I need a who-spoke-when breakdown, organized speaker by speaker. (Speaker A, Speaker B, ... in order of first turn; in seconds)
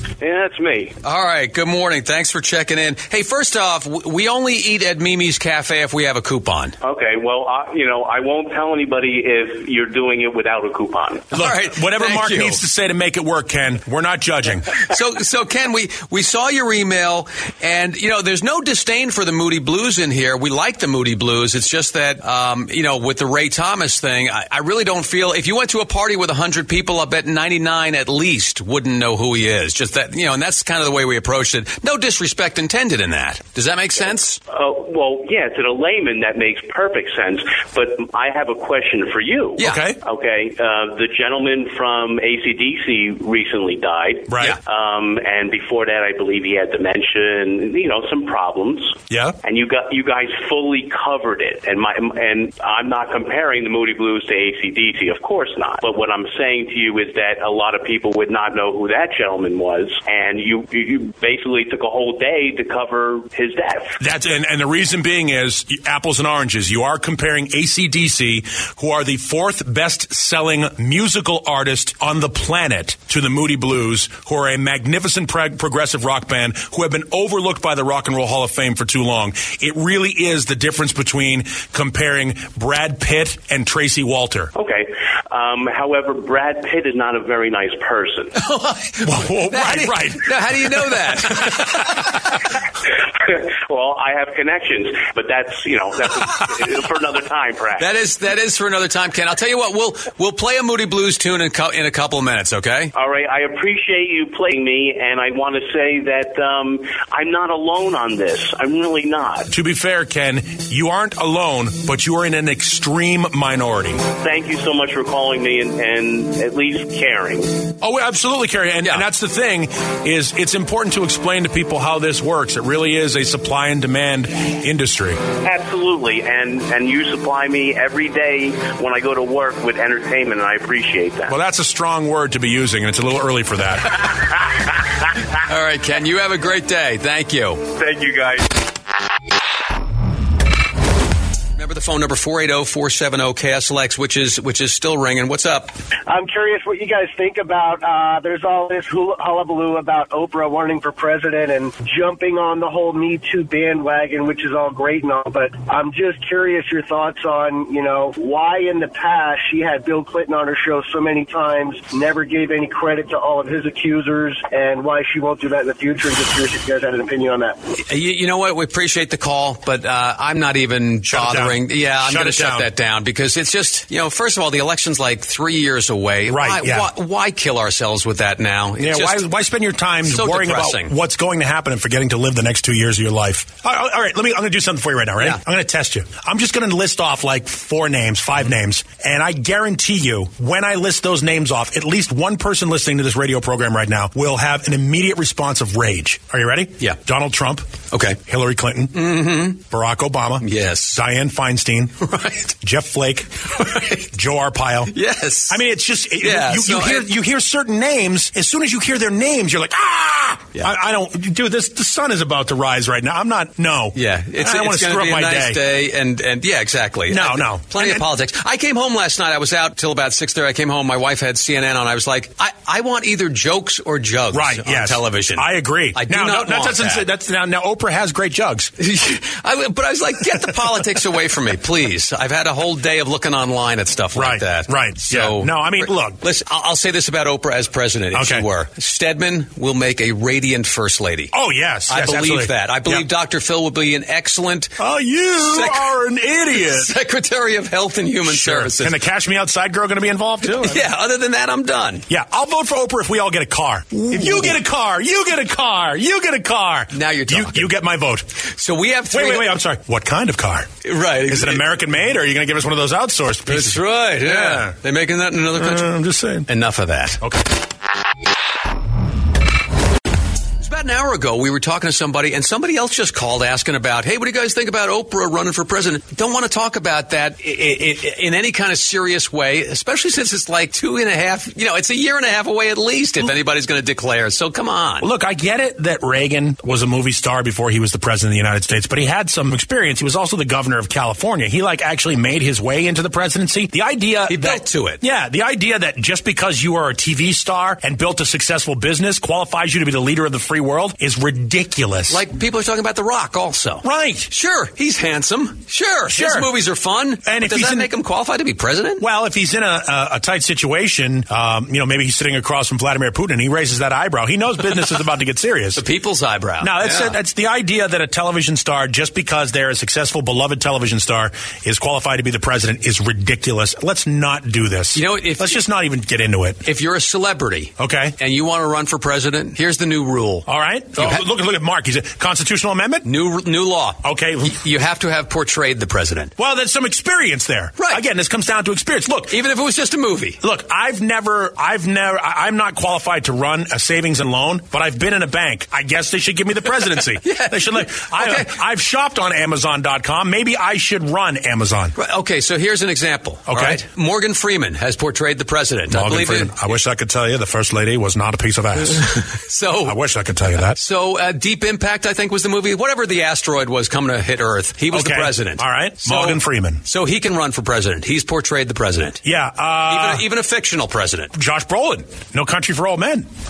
Speaker A: 0.2-0.9, 6.8-11.3, 34.5-64.0, 84.5-88.3, 93.2-97.9, 102.9-109.5, 114.2-117.5, 125.4-131.3, 137.7-138.5
Speaker B: 1.0-6.8, 11.3-12.6, 14.8-34.4, 88.4-92.1, 97.8-102.9, 135.4-137.7, 141.6-145.7, 167.8-179.3, 180.1-180.9, 197.9-198.2, 198.9-199.6, 200.4-201.0, 202.0-202.5, 203.6-204.1, 204.9-205.6, 206.2-207.1, 213.9-227.1, 228.8-241.3, 241.9-244.8, 245.4-245.9, 246.5-249.0, 250.4-252.1, 254.1-254.6, 256.9-257.7, 258.4-259.6, 260.8-261.7, 263.5-265.9, 266.5-267.2, 270.6-285.1, 294.3-295.0, 302.1-309.0, 315.7-317.2, 324.9-325.6, 326.6-331.2, 333.0-336.3, 339.3-340.4, 347.2-348.5, 351.9-356.6, 359.0-360.0, 360.7-369.2, 369.9-371.3
Speaker C: 11.3-14.8, 39.6-40.0, 44.3-44.6, 49.1-49.4, 64.0-84.5, 89.0-91.8, 109.5-114.0, 117.8-125.2, 131.3-134.1, 171.1-172.7, 176.3-176.9, 178.8-202.0, 202.6-204.9, 205.5-215.6, 217.1-218.1, 224.3-228.7, 234.2-236.2, 238.1-238.4, 241.3-243.1, 244.8-246.9, 248.2-250.8, 252.1-258.3, 259.1-260.7, 261.2-264.7, 265.6-266.5, 267.2-267.4, 285.0-302.2, 303.8-304.3, 306.1-306.5, 307.2-307.9, 309.0-315.8, 316.6-326.6, 327.8-328.2, 330.5-333.1, 334.0-334.6, 336.4-339.4, 340.4-351.9, 353.5-353.8, 355.9-359.2, 359.8-360.8, 364.9-366.8, 369.2-370.2, 371.3-373.3
Speaker D: 146.1-167.6